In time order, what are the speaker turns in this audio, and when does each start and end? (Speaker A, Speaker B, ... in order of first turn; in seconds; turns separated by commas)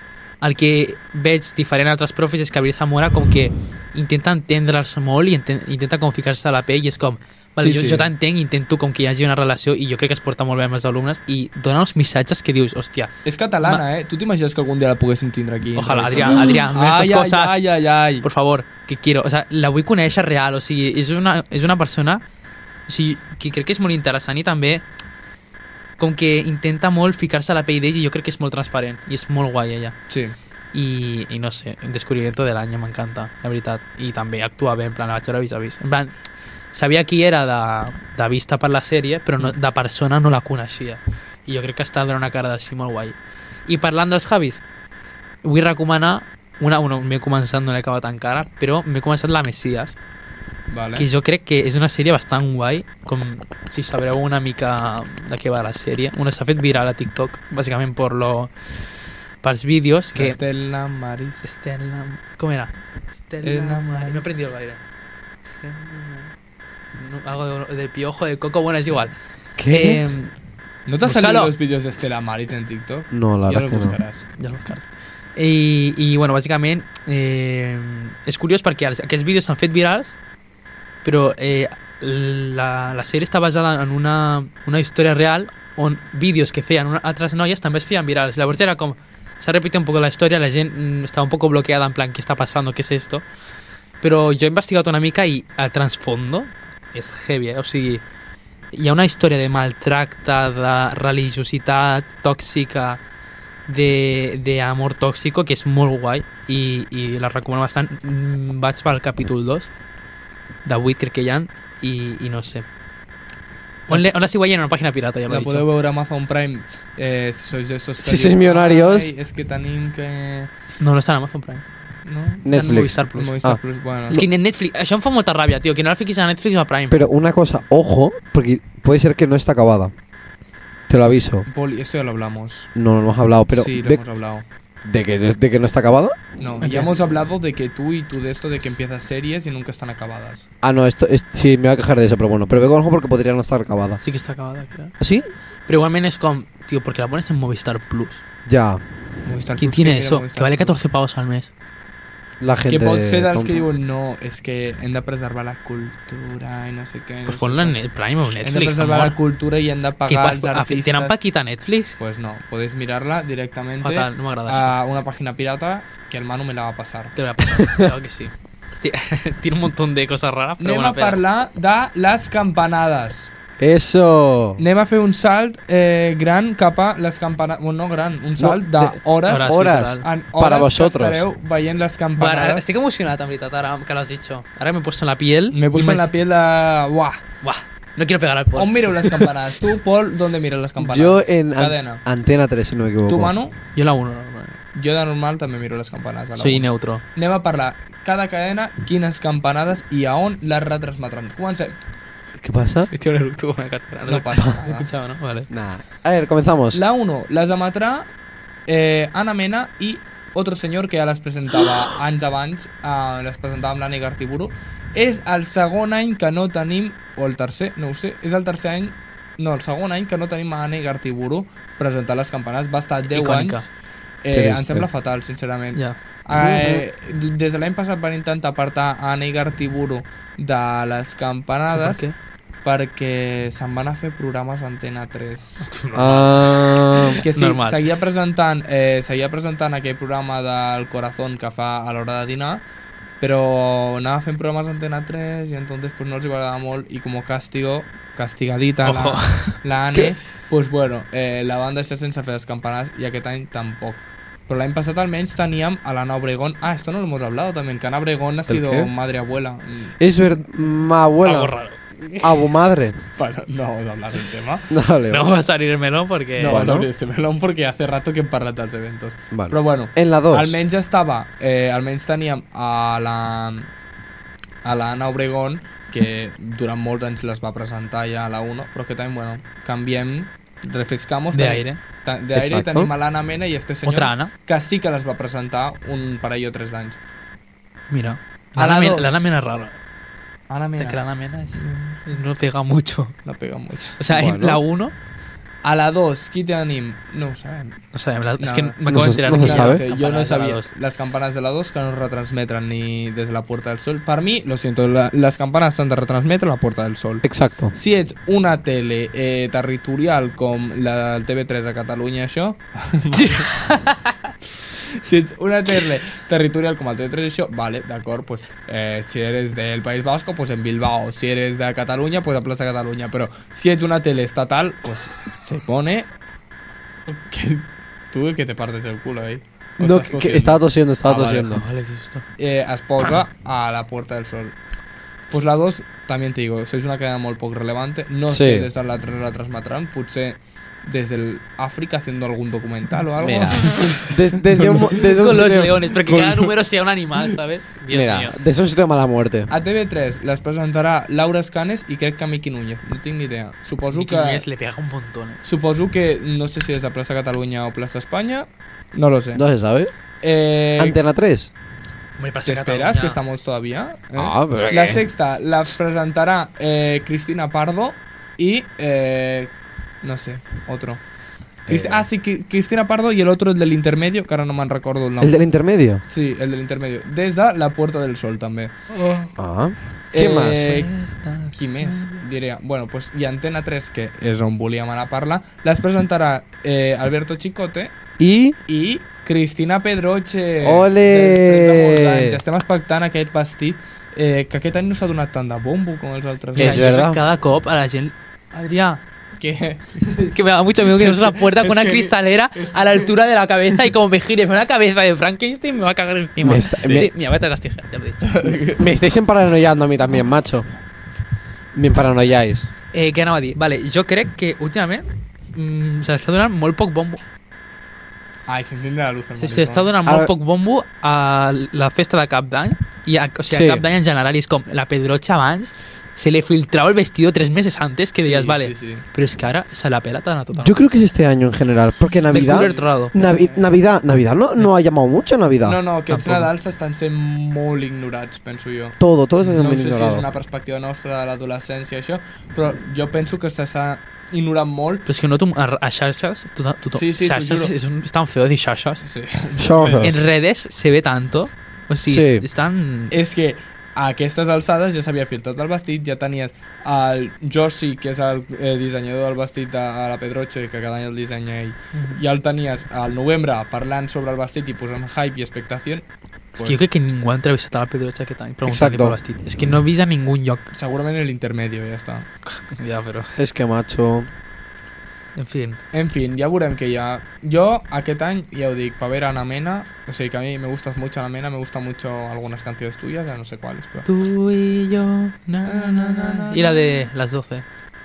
Speaker A: 0.4-13.8, Speaker B: 7.6-8.1, Speaker B: 13.2-18.3, Speaker A: 15.8-17.6, Speaker A: 18.2-22.2, Speaker A: 22.9-24.8, Speaker A: 26.0-30.0, Speaker B: 30.1-30.4, Speaker A: 30.7-36.1, Speaker A: 36.7-43.2, Speaker A: 43.7-44.6, Speaker A: 45.4-50.0, Speaker B: 50.7-51.1, Speaker A: 51.0-58.5, Speaker A: 59.4-60.4, Speaker B: 60.1-61.5, Speaker A: 61.4-64.8, Speaker B: 63.4-64.2, Speaker A: 65.5-66.3, Speaker A: 67.0-69.1, Speaker C: 69.6-70.0, Speaker A: 69.7-70.3, Speaker B: 70.9-74.2, Speaker A: 71.0-71.5, Speaker C: 73.1-74.0, Speaker A: 74.4-80.2, Speaker A: 81.0-93.2, Speaker A: 94.0-98.0, Speaker A: 98.7-103.0, Speaker A: 103.7-109.7, Speaker A: 110.7-112.7, Speaker A: 113.9-115.7, Speaker B: 115.3-120.5, Speaker C: 118.0-119.1, Speaker A: 120.8-121.6, Speaker B: 122.0-122.6, Speaker C: 122.4-123.6, Speaker A: 122.5-123.4, Speaker B: 123.1-124.2, Speaker A: 124.1-127.1, Speaker C: 126.9-129.9, Speaker C: 130.9-131.5, Speaker B: 131.5-132.7, Speaker C: 132.8-134.0, Speaker B: 133.5-134.5, Speaker C: 134.8-136.2, Speaker B: 136.4-140.5, Speaker A: 136.6-136.9, Speaker C: 140.6-144.0, Speaker A: 144.0-144.9, Speaker C: 145.0-145.3, Speaker A: 145.7-148.2, Speaker C: 148.5-148.8, Speaker B: 149.2-150.8, Speaker A: 149.6-151.5, Speaker C: 152.4-153.6, Speaker B: 152.7-157.8, Speaker A: 157.3-159.2, Speaker B: 158.4-161.1, Speaker A: 160.1-162.0, Speaker B: 162.0-167.1, Speaker A: 163.8-164.8, Speaker A: 167.2-171.2, Speaker C: 167.6-167.9, Speaker B: 170.6-173.3, Speaker C: 173.6-174.6, Speaker B: 174.6-182.6, Speaker C: 178.4-181.2, Speaker A: 179.3-180.1, Speaker A: 182.2-186.1, Speaker B: 185.5-187.2, Speaker A: 187.4-189.3, Speaker B: 188.6-192.0, Speaker C: 190.8-193.3, Speaker B: 193.1-193.6, Speaker A: 193.8-194.6, Speaker B: 194.7-201.8, Speaker A: 196.4-197.0, Speaker C: 202.4-202.9, Speaker A: 202.9-205.5, Speaker B: 204.1-204.9, Speaker C: 205.5-206.8, Speaker B: 206.7-208.1, Speaker B: 208.7-223.7, Speaker A: 223.1-223.7, Speaker B: 224.2-232.0, Speaker C: 224.3-224.9, Speaker C: 226.4-226.8, Speaker A: 231.8-232.1, Speaker B: 232.6-235.7, Speaker A: 235.6-237.8, Speaker C: 235.9-237.2, Speaker B: 237.2-242.6, Speaker B: 243.2-260.0, Speaker A: 248.8-249.6, Speaker C: 258.5-258.9, Speaker C: 260.0-261.5, Speaker A: 261.2-262.3, Speaker C: 262.2-263.0, Speaker B: 263.1-264.7, Speaker C: 264.7-265.3, Speaker A: 265.1-266.6, Speaker B: 266.4-273.7, Speaker C: 266.4-266.9, Speaker C: 269.3-270.6, Speaker B: 274.6-287.0, Speaker A: 281.3-281.8, Speaker C: 282.4-282.9, Speaker A: 283.9-284.3, Speaker A: 287.9-289.8, Speaker B: 288.6-289.2, Speaker B: 290.5-291.0, Speaker A: 290.8-293.1, Speaker B: 291.6-292.0, Speaker B: 293.2-294.0, Speaker A: 294.0-294.9, Speaker C: 294.1-294.6, Speaker B: 295.6-297.8, Speaker A: 297.9-300.7, Speaker B: 298.4-313.6, Speaker C: 298.9-299.8, Speaker C: 307.2-307.7, Speaker A: 313.1-314.2, Speaker B: 314.8-326.1, Speaker B: 327.1-331.6, Speaker C: 329.8-331.6, Speaker A: 331.5-332.2, Speaker B: 332.4-334.6, Speaker B: 335.3-345.2, Speaker C: 338.3-338.7, Speaker C: 343.2-345.9, Speaker A: 345.0-348.4, Speaker B: 346.1-346.5, Speaker C: 347.9-349.5, Speaker B: 349.5-354.4, Speaker A: 353.9-355.4, Speaker B: 355.4-359.4, Speaker C: 359.4-359.9, Speaker B: 360.2-361.0, Speaker C: 360.8-361.5, Speaker A: 362.2-363.2, Speaker B: 362.5-371.0, Speaker C: 364.2-365.1, Speaker B: 371.7-375.4, Speaker C: 371.7-372.1, Speaker C: 375.2-376.0, Speaker B: 376.1-379.3, Speaker C: 379.4-380.7, Speaker B: 380.1-380.9, Speaker A: 380.6-382.2, Speaker B: 381.5-387.9, Speaker C: 388.2-388.6, Speaker B: 388.7-396.9, Speaker C: 390.6-392.4, Speaker C: 396.6-397.2, Speaker A: 396.6-399.0, Speaker B: 399.4-400.2, Speaker A: 400.0-408.3, Speaker B: 400.8-403.1, Speaker C: 406.4-407.1, Speaker B: 408.2-408.9, Speaker C: 408.8-410.7, Speaker C: 411.7-412.7, Speaker A: 412.9-417.2, Speaker B: 418.5-419.9, Speaker A: 419.4-430.8, Speaker C: 420.1-420.3, Speaker C: 423.5-423.8, Speaker B: 428.2-429.1, Speaker C: 430.5-435.8, Speaker A: 432.3-433.1, Speaker B: 432.3-433.8, Speaker B: 435.6-445.1, Speaker A: 436.1-436.5, Speaker C: 439.0-440.2, Speaker A: 445.1-449.1, Speaker B: 446.9-447.7, Speaker B: 449.0-450.3, Speaker C: 449.6-450.3, Speaker A: 450.0-453.1, Speaker C: 452.1-452.4, Speaker B: 453.1-466.8, Speaker A: 461.9-462.2, Speaker A: 466.6-470.7, Speaker C: 468.7-469.2, Speaker B: 470.7-472.3, Speaker A: 472.5-473.3, Speaker C: 473.4-474.3, Speaker A: 475.4-475.8, Speaker B: 475.9-484.1, Speaker A: 484.1-487.6, Speaker B: 485.6-487.1